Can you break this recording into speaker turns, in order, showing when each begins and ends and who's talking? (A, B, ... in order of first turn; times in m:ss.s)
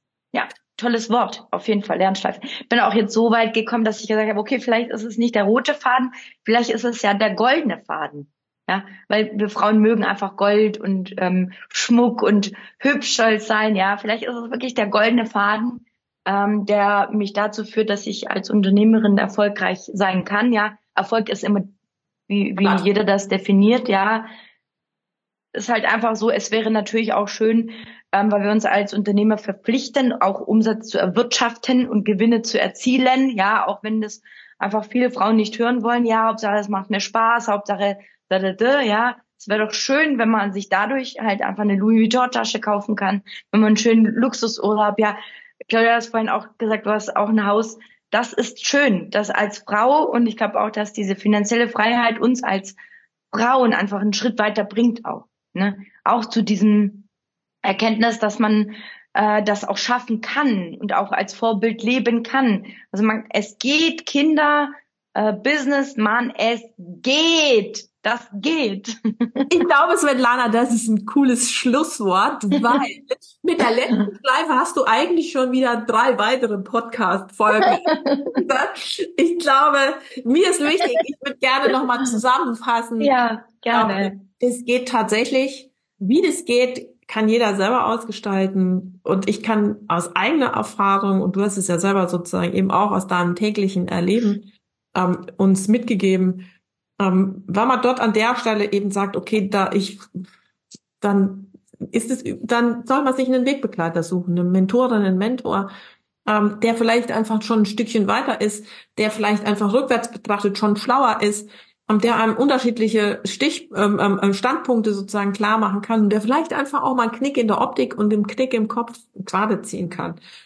0:00.3-0:21.7 A
0:22.3-0:24.3 A
0:22.6-0:22.8 B
0:25.5-0:45.2 A
0:45.7-0:52.8 A
0:53.3-0:57.1 A
0:57.6-1:09.4 A
1:09.5-1:23.1 B
1:17.6-1:18.4 A
1:23.0-1:24.2 A
1:23.7-1:36.5 B
1:37.0-1:40.0 B
1:41.0-1:45.7 B
1:46.3-2:00.2 B